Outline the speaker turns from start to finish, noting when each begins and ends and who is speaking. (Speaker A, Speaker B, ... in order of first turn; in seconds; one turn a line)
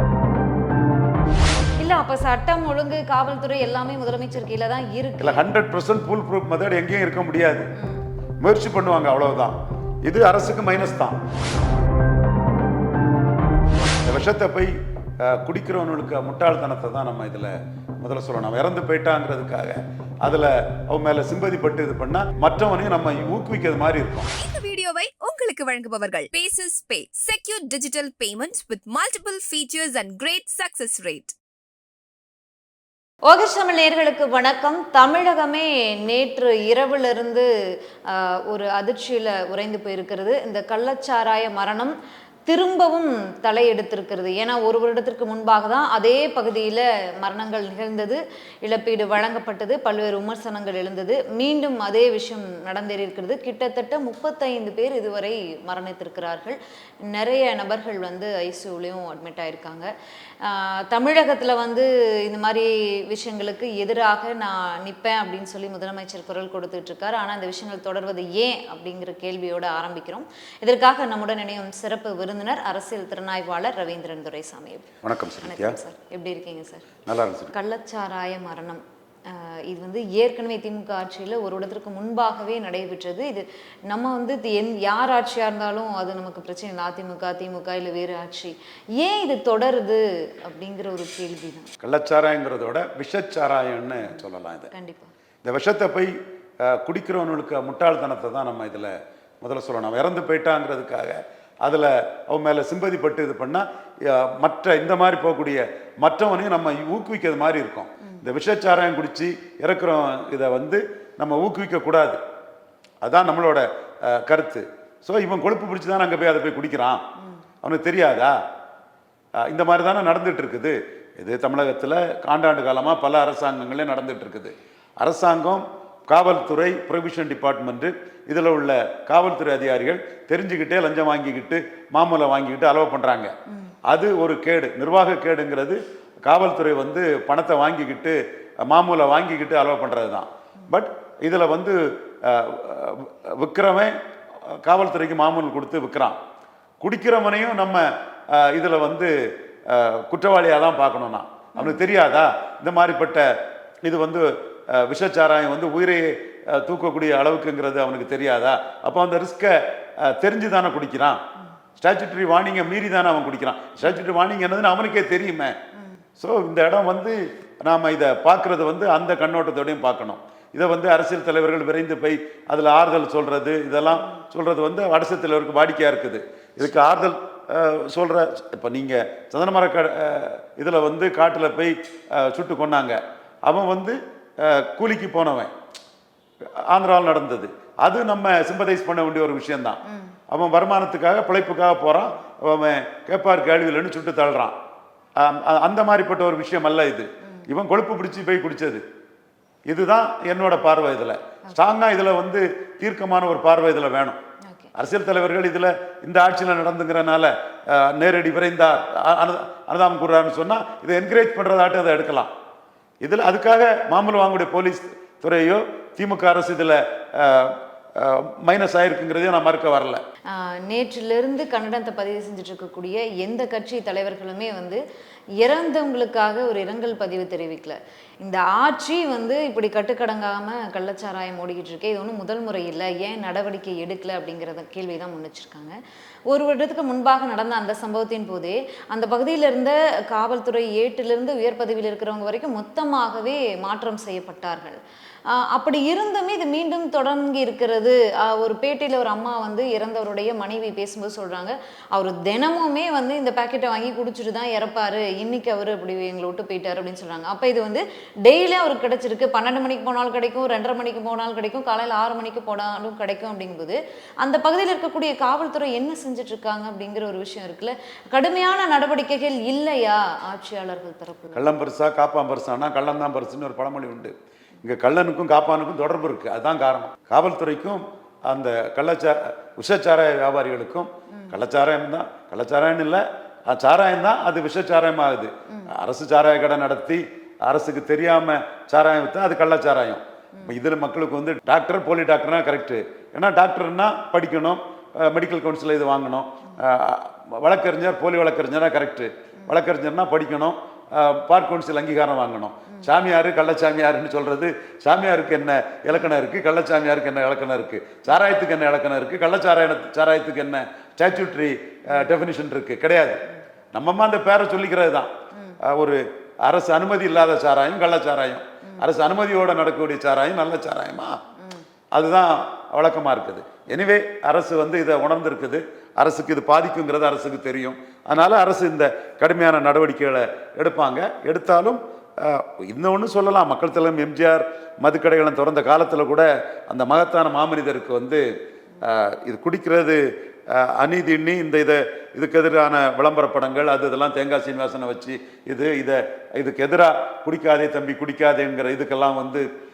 Speaker A: 1.8-5.5
Speaker B: 5.2-7.7
Speaker A: 7.7-8.1
Speaker B: 8.4-11.2
Speaker B: 14.0-24.3
Speaker C: 24.4-31.4
Speaker A: 33.3-41.9
Speaker A: 42.5-74.9
Speaker B: 75.0-75.8
Speaker A: 75.4-76.9
Speaker B: 77.1-77.5
Speaker A: 77.5-91.7
Speaker B: 91.8-94.7
Speaker A: 94.1-95.1
Speaker B: 95.4-96.1
Speaker B: 96.6-112.2
Speaker B: 113.0-117.0
Speaker B: 117.6-118.3
Speaker B: 119.5-133.3
Speaker B: 133.9-143.9
Speaker B: 144.5-146.2
Speaker B: 146.8-149.1
Speaker B: 149.7-153.3
Speaker A: 151.6-151.9
Speaker B: 153.8-161.2
Speaker B: 161.8-165.6
Speaker B: 166.2-185.5
Speaker A: 173.9-174.2
Speaker B: 186.7-189.8
Speaker A: 189.9-190.2
Speaker B: 190.3-194.6
Speaker B: 195.2-198.8
Speaker B: 199.7-204.2
Speaker A: 204.5-204.7
Speaker B: 204.8-212.3
Speaker B: 213.0-220.0
Speaker A: 220.3-224.8
Speaker A: 225.4-235.8
Speaker A: 236.3-271.5
Speaker B: 271.4-313.2
Speaker A: 281.1-281.4
Speaker B: 313.7-315.1
Speaker A: 315.3-315.6
Speaker B: 315.6-321.2
Speaker A: 321.4-321.6
Speaker B: 321.9-338.2
Speaker B: 338.8-349.4